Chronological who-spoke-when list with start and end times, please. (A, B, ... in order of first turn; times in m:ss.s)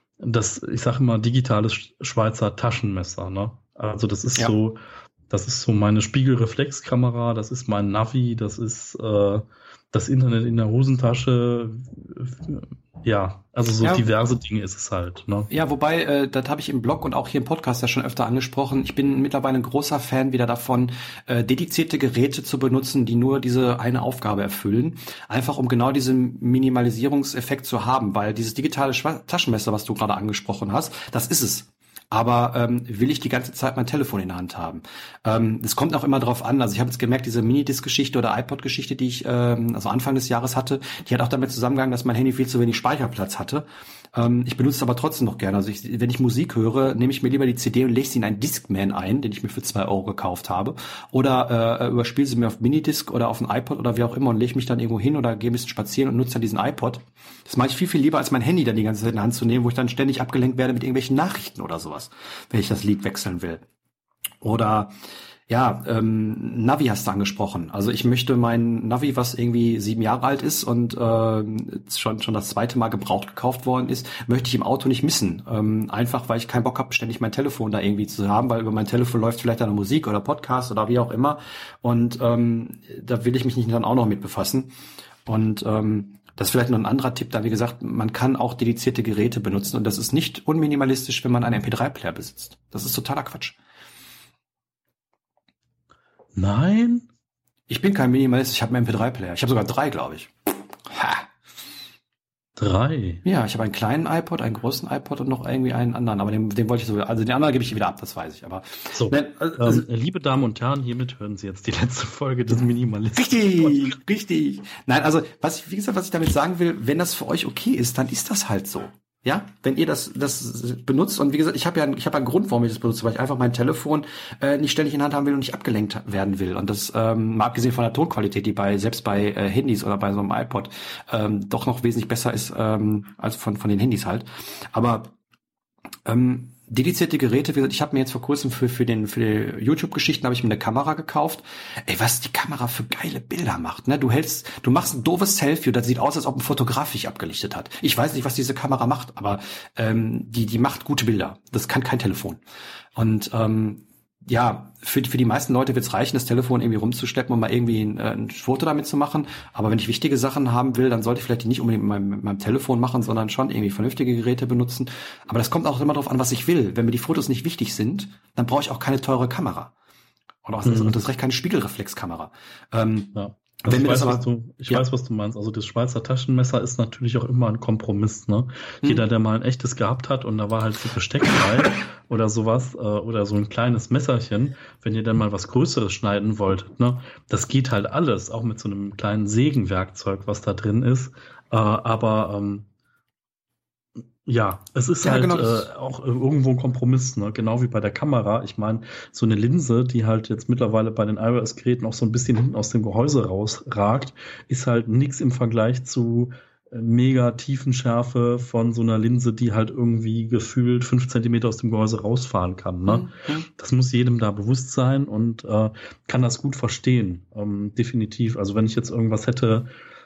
0:00.2-0:15.5 A
0:15.5-1:03.6 B
1:04.4-1:04.9 B
1:05.5-1:24.7 B
1:25.2-1:33.6 B
1:36.4-1:37.0 A
1:37.7-1:41.2 B
1:42.6-1:43.2 A
1:43.2-1:49.9 B
1:48.9-1:54.0 A
1:53.2-2:15.1 B
2:16.0-2:32.4 B
2:33.0-2:49.7 B
2:50.4-2:53.1 B
2:50.6-2:51.0 A
2:53.1-3:12.6 A
2:53.6-2:54.8 B
3:14.2-3:39.7 A
3:15.0-3:15.7 B
3:32.8-3:33.5 B